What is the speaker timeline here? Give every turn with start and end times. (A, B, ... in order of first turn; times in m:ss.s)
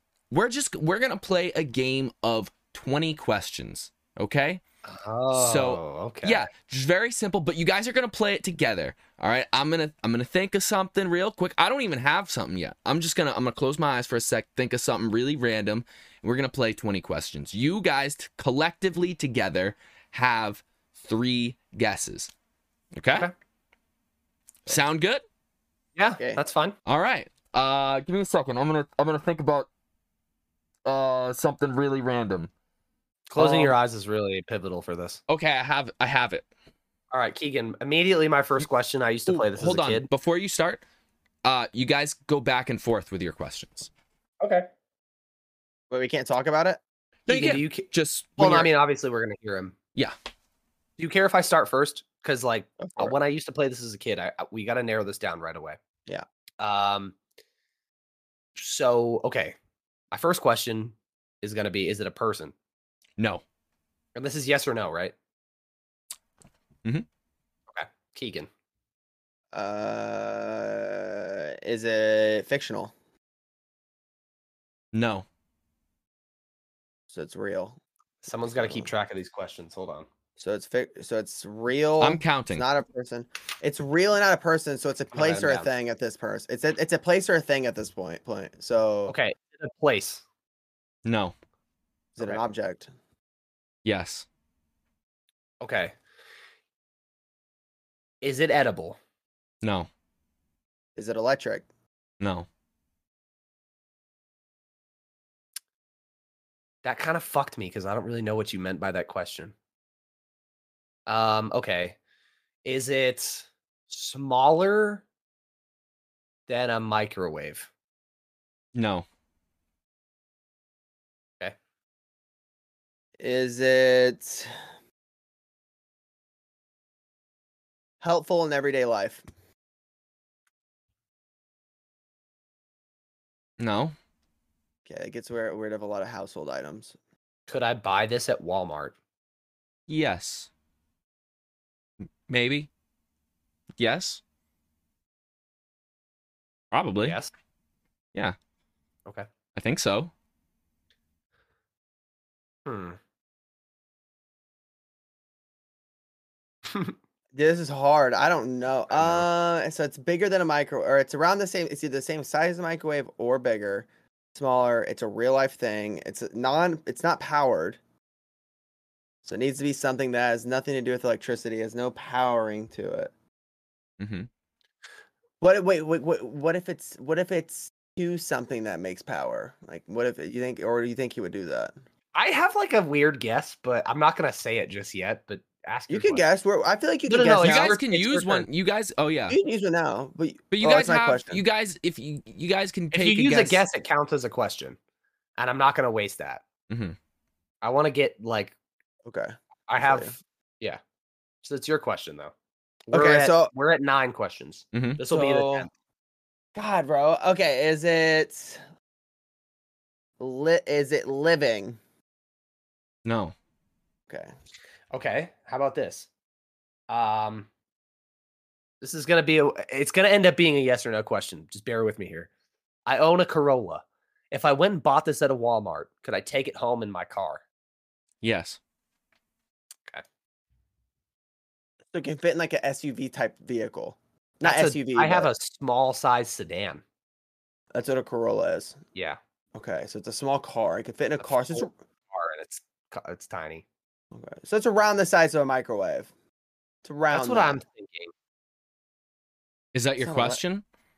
0:00.3-0:04.6 A
0:04.8-0:06.5 B
0:05.3-0:22.3 A
0:23.0-0:23.3 A
0:24.6-0:25.2 A
0:26.0-0:26.8 B
0:26.8-0:29.7 A
0:30.8-0:32.5 A
0:33.3-0:35.2 B
0:33.4-0:33.7 A
0:35.3-0:36.4 A
0:37.1-0:40.1 B
0:39.3-0:40.8 A
0:41.4-0:43.9 A
0:44.4-0:44.7 B
0:45.9-0:46.8 C
0:47.3-0:48.7 A
0:47.3-0:49.8 B
0:51.0-0:55.8 B
0:52.8-0:53.1 C
0:56.6-0:57.2 B
0:58.5-0:59.6 B
1:00.1-1:02.5 B
1:03.2-1:03.4 A
1:04.1-1:05.1 B
1:07.7-1:08.5 B
1:09.5-1:12.9 C
1:14.9-1:15.2 A
1:17.1-1:17.8 C
1:18.2-1:20.1 B
1:18.6-1:18.9 C
1:20.4-1:29.1 C
1:22.0-1:22.6 A
1:25.1-1:25.7 B
1:29.1-1:30.2 B
1:31.0-1:31.3 A
1:32.2-1:32.9 C
1:33.8-1:34.2 A
1:35.6-1:35.9 B
1:38.2-1:39.0 B
1:39.6-1:39.9 A
1:41.0-1:41.6 C
1:42.2-1:42.5 A
1:46.8-1:49.5 B
1:51.1-1:52.0 B
1:52.6-1:55.0 B
1:56.5-1:57.7 B
1:58.7-1:59.0 A
2:03.2-2:04.5 C
2:08.0-2:09.2 C
2:13.6-2:13.9 A
2:14.8-2:17.0 C
2:17.5-2:18.9 B
2:19.9-2:20.5 A
2:22.3-2:22.7 A
2:23.8-2:24.2 A
2:26.7-2:27.2 A
2:27.0-2:27.3 B
2:29.5-2:30.1 A
2:32.6-2:33.0 B
2:37.3-2:47.8 C
2:49.2-2:53.1 C
2:54.0-2:54.3 A
2:55.4-3:01.7 C
3:02.1-3:06.2 B
3:05.9-3:07.8 C
3:07.0-3:08.5 B
3:07.4-3:09.4 A
3:09.3-3:11.4 C
3:10.5-3:13.6 A
3:12.9-3:14.8 B
3:15.4-3:16.4 B
3:16.7-3:17.0 A
3:17.6-3:18.5 B
3:19.0-3:19.3 C
3:19.7-3:20.8 B
3:19.8-3:20.1 C
3:21.4-3:22.3 B
3:22.9-3:25.7 B
3:22.9-3:23.5 C
3:24.7-3:25.0 A
3:25.1-3:25.7 C
3:26.5-3:28.6 C
3:30.2-3:31.8 C
3:33.0-3:33.3 A
3:34.9-3:36.1 B
3:36.9-3:37.5 B
3:38.8-3:42.3 B
3:42.8-3:47.4 B
3:48.2-3:48.6 A
3:51.9-3:55.3 C
3:54.4-3:56.8 B
3:57.7-3:58.8 C
3:59.5-4:01.7 C
4:01.2-4:03.6 B
4:04.1-4:06.1 C
4:06.8-4:07.6 C
4:07.1-4:08.1 B
4:09.7-4:10.6 A
4:10.0-4:10.4 C